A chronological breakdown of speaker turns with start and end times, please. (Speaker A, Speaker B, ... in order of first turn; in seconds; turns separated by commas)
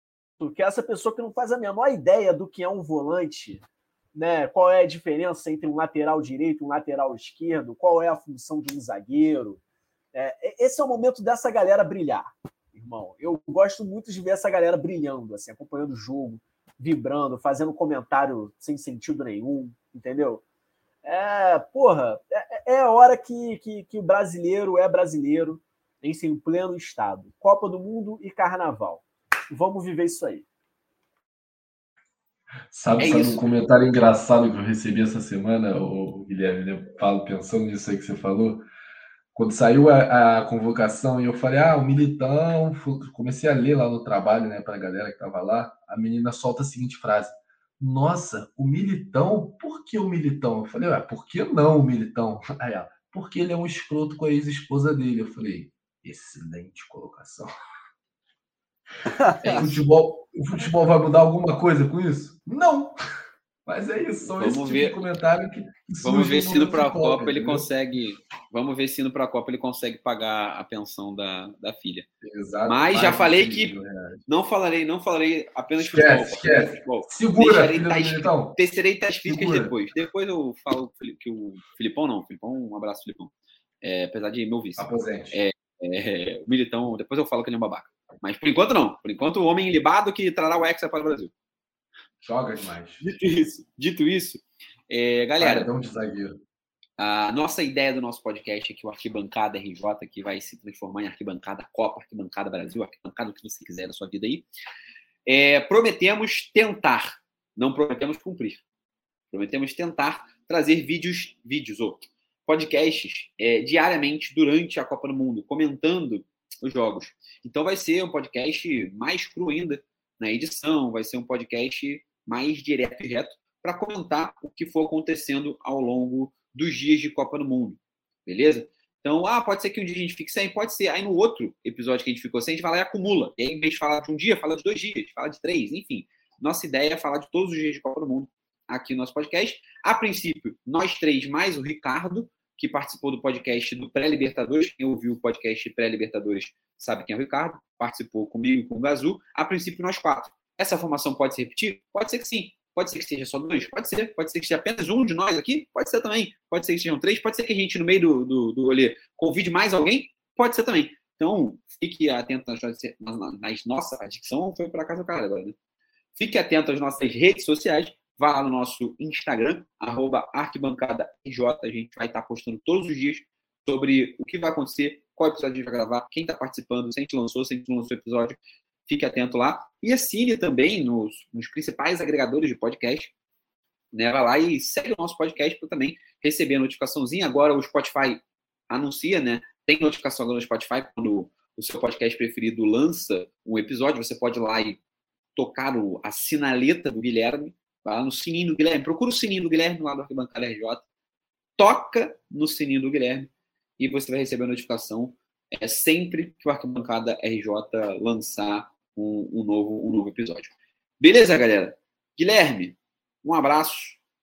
Speaker A: 0.4-9.6, Speaker A: 10.1-20.4, Speaker A: 21.0-30.4, Speaker B: 32.7-38.6, Speaker C: 33.0-33.4, Speaker B: 39.3-57.5, Speaker A: 59.1-59.6, Speaker C: 59.4-59.8, Speaker B: 59.5-63.0, Speaker B: 63.6-67.7, Speaker C: 64.3-65.0, Speaker C: 66.0-72.1, Speaker B: 72.2-74.2, Speaker C: 72.7-73.7, Speaker C: 74.3-91.3, Speaker B: 75.8-78.6, Speaker B: 79.2-79.7, Speaker B: 84.8-85.4, Speaker B: 92.2-93.0, Speaker C: 93.0-95.7, Speaker B: 95.4-96.4, Speaker C: 97.0-104.5, Speaker C: 105.2-108.6, Speaker C: 109.3-165.5, Speaker C: 166.2-183.1, Speaker C: 183.9-194.8, Speaker C: 195.3-200.8, Speaker C: 201.6-214.0